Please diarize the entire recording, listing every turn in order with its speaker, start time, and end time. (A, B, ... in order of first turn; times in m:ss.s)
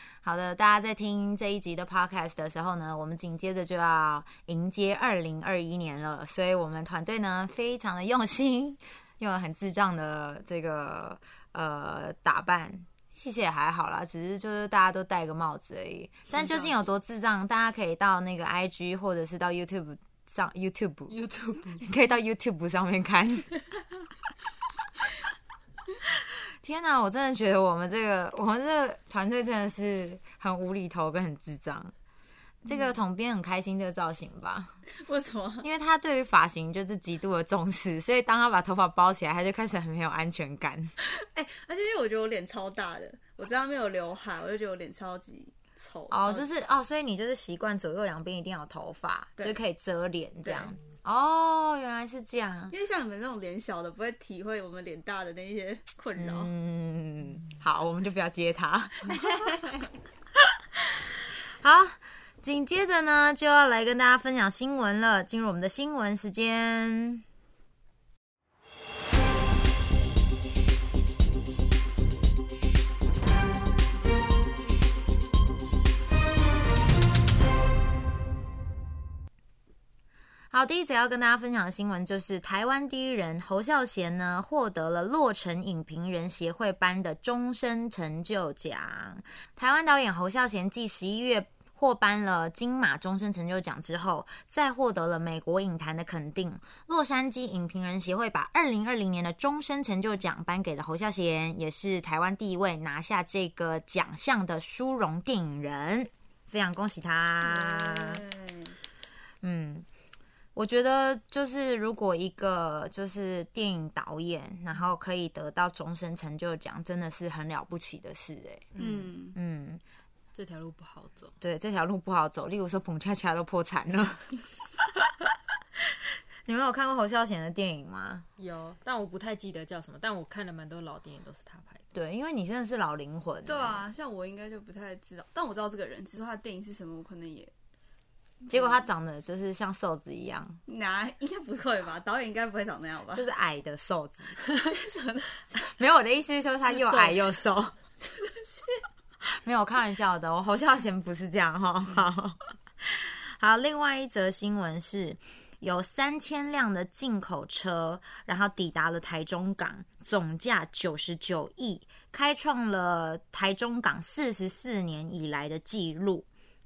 0:00.2-0:21.2 A
0:16.3-0:16.9 B
0:21.1-0:21.9 B
0:21.8-0:23.6 A
0:26.1-0:31.9 A
0:32.6-0:34.8 A
0:35.0-0:35.7 C
0:35.6-0:40.9 A
0:41.0-0:46.5 C
0:46.1-0:52.8 A
0:50.4-0:50.7 C
0:52.7-0:56.5 C
0:56.2-0:59.6 A
0:59.1-0:59.9 C
1:00.4-1:07.2 A
1:20.5-1:48.2 A
1:47.4-1:48.8 C
1:49.4-1:49.9 A
1:50.6-1:58.7 A
1:58.7-1:59.1 B
1:58.8-1:59.4 C
1:59.4-1:59.8 A
2:00.3-2:01.3 B
2:01.4-2:08.3 A
2:08.4-2:11.8 B
2:11.9-2:13.9 A
2:13.4-2:17.5 C
2:18.5-2:20.6 A
2:20.7-2:23.3 C
2:23.1-2:24.4 A
2:24.6-2:25.8 C
2:25.8-2:27.8 A
2:26.6-2:27.2 B
2:28.0-2:28.8 C
2:29.2-2:46.3 A